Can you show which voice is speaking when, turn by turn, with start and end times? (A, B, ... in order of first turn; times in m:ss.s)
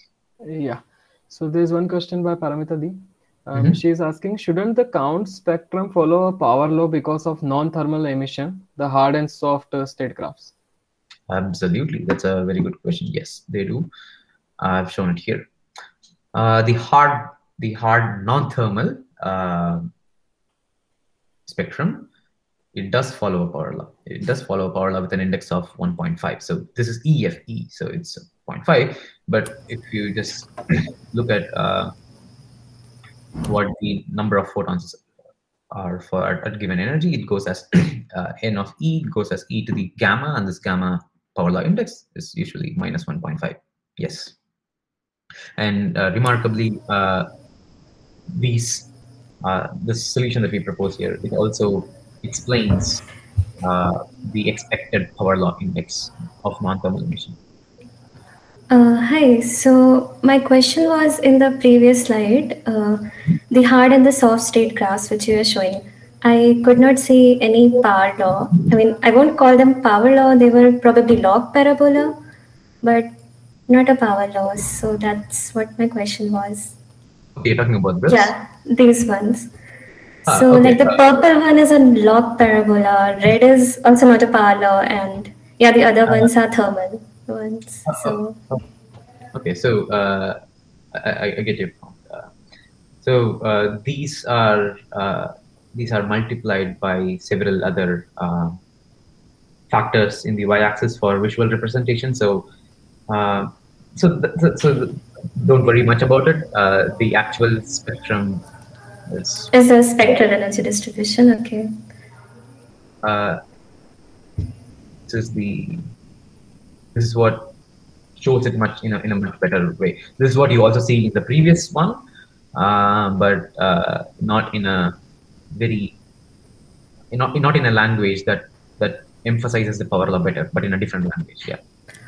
0:00.4-0:10.5 A
0:11.3-0:13.9 B
0:14.6-0:15.5 B
0:16.3-0:19.9 B
0:21.5-0:22.1 B
0:22.7-0:31.9 B
0:33.4-0:35.0 B
0:35.7-0:44.4 B
0:45.6-0:47.3 B
0:48.3-0:48.9 B
0:49.4-0:53.0 B
0:53.6-0:57.4 B
0:58.7-1:12.2 C
1:12.8-1:13.1 C
1:13.7-1:16.8 C
1:17.4-1:18.3 B
1:18.1-1:19.5 C
1:20.2-1:28.4 C
1:20.3-1:21.0 B
1:26.0-1:26.3 B
1:27.9-1:28.6 B
1:29.3-1:30.4 B
1:30.9-1:32.3 B
1:33.0-1:38.6 B
1:39.7-1:42.5 B
1:43.1-1:48.4 B
1:49.1-1:50.2 B
1:49.5-1:51.7 C
1:53.0-1:53.4 B
1:55.1-1:55.8 B
1:56.9-1:57.5 B
1:58.2-2:02.0 B
2:02.5-2:05.0 B
2:05.5-2:06.0 B
2:07.1-2:11.6 B